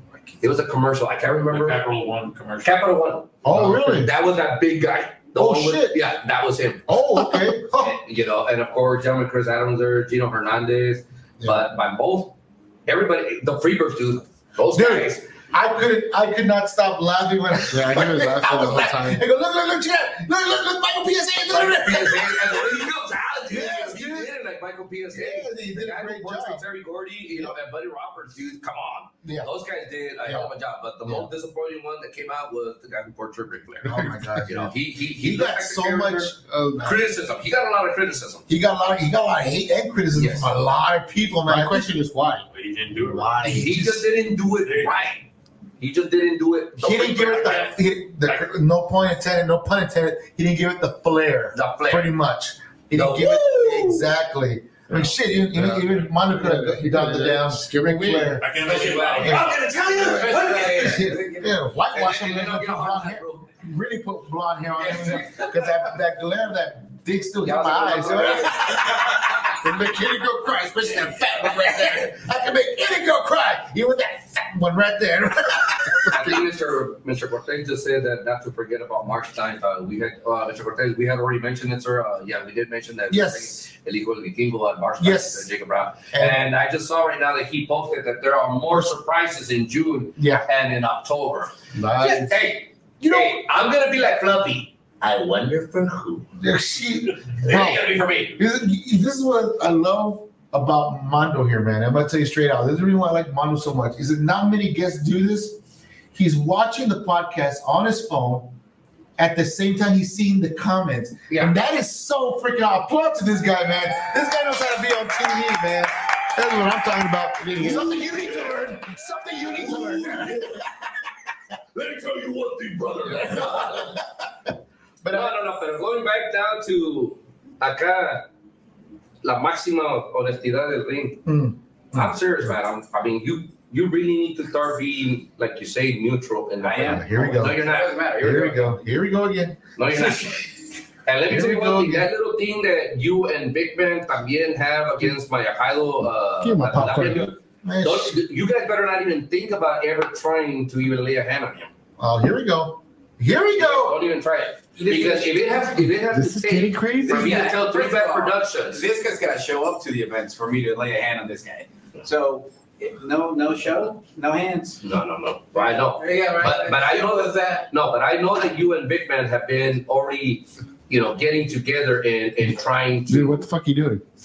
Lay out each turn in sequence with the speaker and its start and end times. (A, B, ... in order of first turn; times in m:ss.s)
0:00.4-0:01.8 A
0:01.5-0:02.9 B
0:02.6-0:15.2 A
0:03.4-0:04.1 C
0:03.5-0:03.9 D
0:05.4-0:06.1 C
0:06.9-0:08.0 C
0:14.7-0:22.5 C
0:17.7-0:19.2 D
0:21.5-0:38.5 A
0:23.5-0:24.3 C
0:25.1-0:26.6 C
0:29.2-0:29.5 C
0:31.0-0:31.3 C
0:33.8-0:36.4 C
0:36.4-0:37.0 D
0:38.5-0:41.9 C
0:40.1-0:40.5 A
0:41.4-0:42.5 D
0:42.5-0:43.5 B
0:43.0-0:43.9 D
0:43.4-0:45.2 A
0:43.5-0:44.0 C
0:44.6-0:44.9 B
0:45.8-0:47.7 A
0:46.8-1:16.4 C
0:47.4-0:47.7 B
0:51.5-0:52.1 A
0:52.9-0:54.1 A
0:55.5-0:58.4 D
0:58.4-1:00.1 B
0:58.6-1:01.2 A
0:59.8-1:01.6 E
1:01.9-1:03.5 A
1:04.8-1:05.8 A
1:07.4-1:09.4 A
1:09.6-1:10.2 D
1:16.1-1:36.3 A
1:23.1-1:23.6 C
1:25.0-1:25.5 C
1:26.1-1:26.4 C
1:28.7-1:29.0 C
1:30.2-1:30.5 C
1:31.7-1:32.3 D
1:33.0-1:33.4 C
1:36.4-1:45.6 C
1:37.4-1:38.4 A
1:46.1-1:48.5 C
1:49.2-2:00.6 C
1:51.3-1:51.5 A
1:57.4-1:58.1 D
1:59.6-2:00.6 A
2:01.7-2:04.0 A
2:03.1-2:04.0 C
2:05.0-2:05.3 C
2:05.1-2:08.3 A
2:09.2-2:11.3 A
2:11.2-2:12.2 C
2:11.9-2:18.0 A
2:16.6-2:18.8 E
2:16.7-2:17.7 C
2:18.2-2:19.6 C
2:19.8-2:31.7 A
2:21.3-2:22.1 C
2:26.4-2:27.3 D
2:27.6-2:28.2 C
2:32.0-2:34.0 C
2:33.5-2:38.8 A
2:34.7-2:35.7 E
2:35.9-2:37.4 D
2:37.0-2:44.8 E
2:44.8-2:53.4 A
2:45.5-2:47.7 E
2:53.1-2:54.0 D